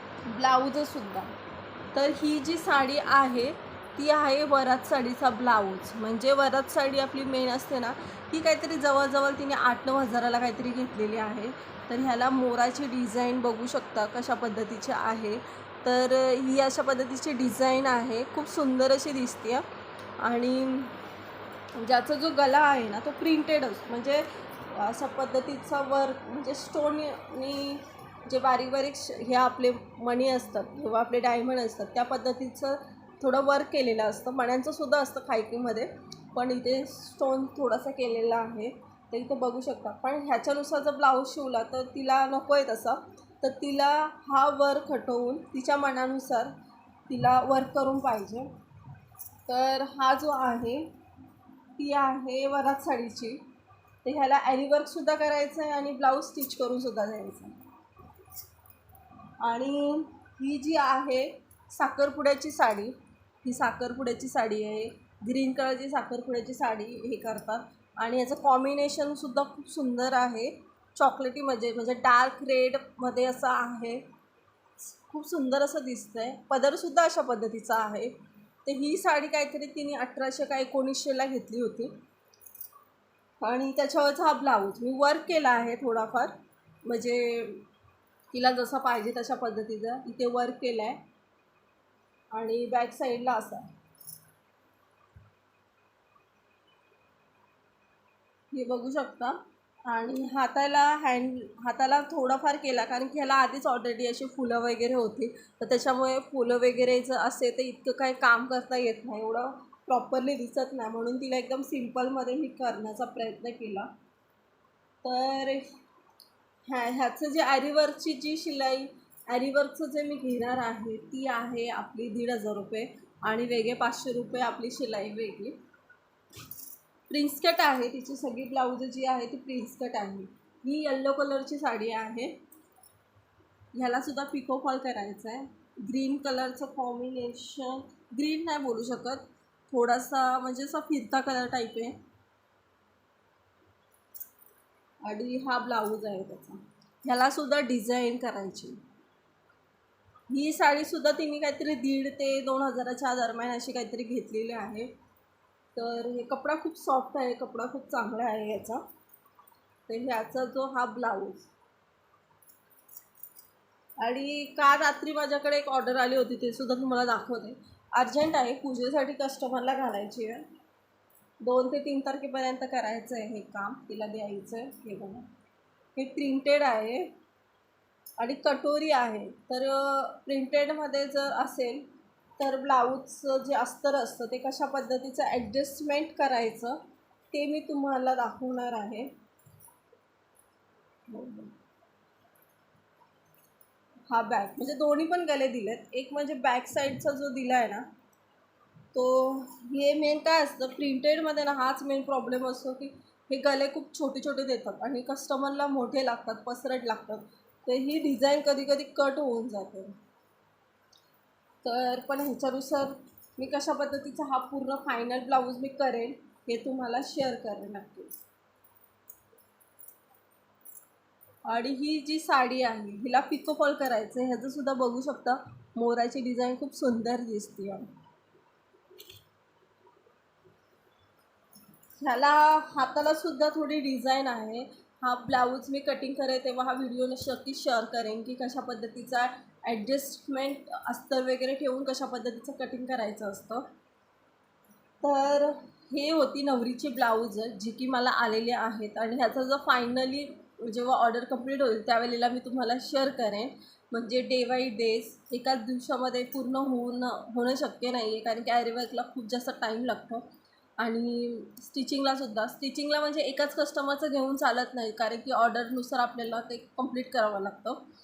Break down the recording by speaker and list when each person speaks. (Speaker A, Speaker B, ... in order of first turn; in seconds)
Speaker A: 0.2-1.3, 1.9-19.6, 20.2-21.0, 21.7-46.5, 47.1-48.5, 49.5-50.9, 51.8-53.4, 54.0-57.5, 59.4-74.0, 74.8-78.1, 78.6-81.9, 83.4-86.3, 86.8-87.6, 88.3-91.0, 92.3-93.7, 98.5-113.9, 115.0-115.6, 116.7-125.5, 127.1-132.3, 133.7-142.0, 145.0-148.8, 150.3-154.9, 155.7-158.8, 159.9-161.5, 164.0-170.4, 171.4-175.3, 175.9-177.1, 178.2-181.8, 182.4-186.8, 187.3-189.1, 191.1-191.5, 194.1-197.8, 198.9-209.9, 211.6-218.2, 221.4-227.8, 232.0-243.6, 245.0-260.3, 260.8-267.8